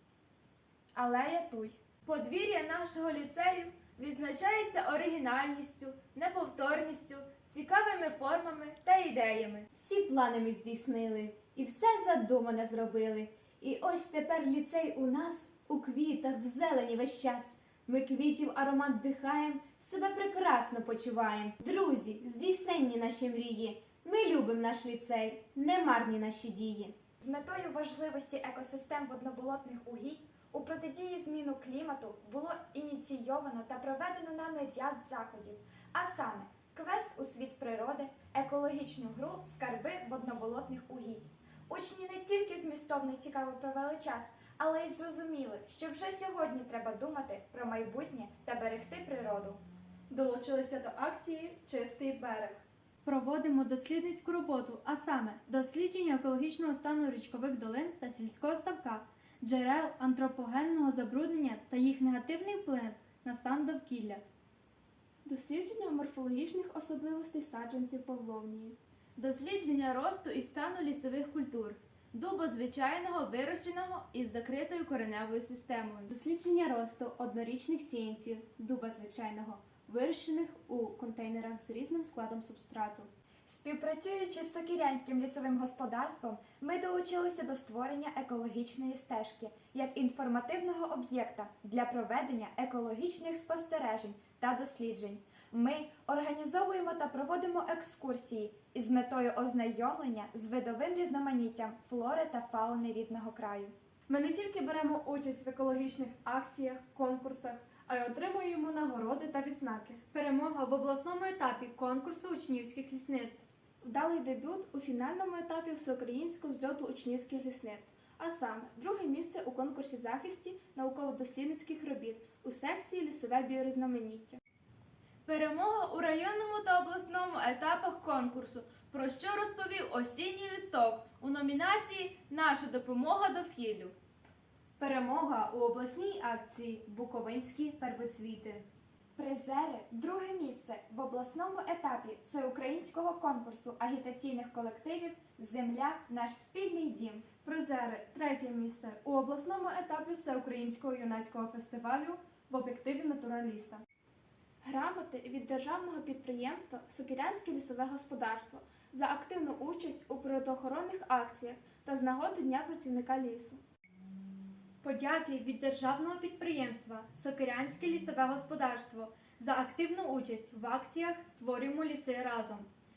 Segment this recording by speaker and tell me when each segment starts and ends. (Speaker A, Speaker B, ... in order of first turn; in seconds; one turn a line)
Speaker A: 0.9-1.8
Speaker B: 2.0-9.7
Speaker C: 9.8-26.9
Speaker D: 27.2-49.6
Speaker E: 50.1-52.6
Speaker F: 53.0-64.2
Speaker A: 65.2-68.8
Speaker B: 69.2-76.1
Speaker C: 76.1-83.1
Speaker D: 83.5-103.7
Speaker E: 104.1-110.0
Speaker F: 110.1-113.4
Speaker A: 113.8-124.4
Speaker B: 125.3-133.9
Speaker C: 134.8-138.6
Speaker D: 139.2-147.2
Speaker E: 147.4-153.8
Speaker A: 154.6-163.6
Speaker F: 164.8-172.7